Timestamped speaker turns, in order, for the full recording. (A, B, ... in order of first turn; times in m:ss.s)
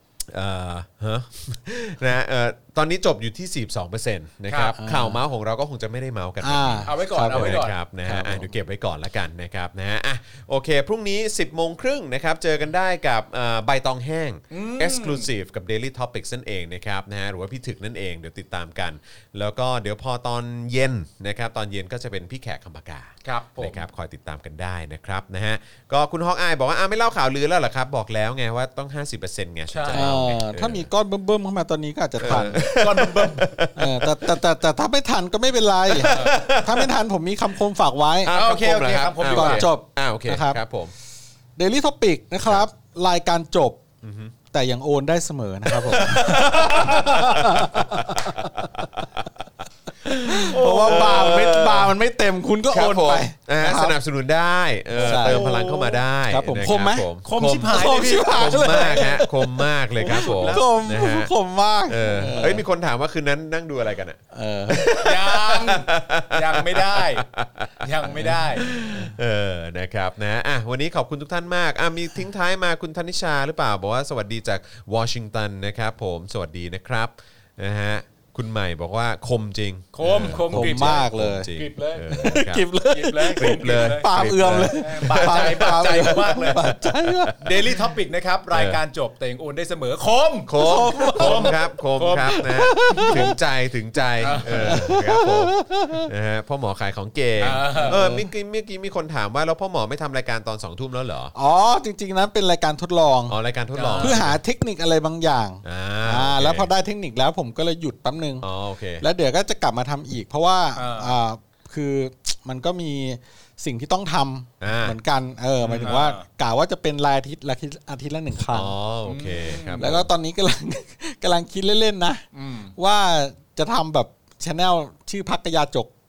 0:00.2-0:30.9 A
0:04.5-0:04.8 B
0:04.8-0:05.2 C
0:06.4-0:08.5 C
0:06.8-0:07.8 B
0:14.5-0:15.3 B
0:23.2-0:23.8 B
0:29.7-0:30.1 B
0:29.9-0:32.7 C
0:32.2-0:34.4 A
0:32.5-0:33.5 B
0:33.8-0:38.4 C
0:35.9-0:36.9 A
0:36.0-0:36.4 B
0:38.2-0:40.9 A
0:38.2-0:39.7 B
0:39.2-0:40.6 C
0:41.6-0:43.8 C
0:44.0-0:44.3 A
0:44.5-0:48.9 C
0:45.7-0:49.3 A
0:50.1-0:51.9 A
0:50.1-0:54.0 C
0:50.5-0:51.4 B
0:52.7-1:01.3 A
0:54.9-0:55.9 B
0:55.0-0:57.1 C
0:57.2-0:59.2 B
0:57.7-1:02.6 C
1:00.0-1:00.6 B
1:01.9-1:22.6 A
1:02.2-1:02.6 B
1:04.3-1:04.9 C
1:04.9-1:07.3 B
1:07.8-1:08.7 B
1:08.4-1:09.1 C
1:19.9-1:26.8 B
1:20.3-1:21.5 C
1:22.2-1:27.5 C
1:23.3-1:25.6 A
1:27.0-1:27.3 A
1:27.4-1:33.1 B
1:28.5-1:28.8 A
1:30.4-1:41.3 A
1:30.6-1:31.6 C
1:32.3-1:33.3 C
1:34.2-1:34.9 B
1:34.4-1:36.1 C
1:37.4-1:38.2 B
1:37.8-1:38.3 C
1:41.3-1:43.3 C
1:43.3-1:44.4 A
1:43.7-1:44.2 B
1:44.0-1:48.4 C
1:45.6-1:46.7 A
1:48.4-1:49.0 A
1:49.0-1:58.8 C
1:50.8-1:51.2 B
1:54.6-1:55.0 A
1:55.6-1:56.0 A
1:55.8-1:56.2 B
1:58.5-2:00.1 A
1:59.0-2:00.0 B
1:59.8-2:02.2 C
2:02.3-2:02.7 B
2:02.8-2:05.9 C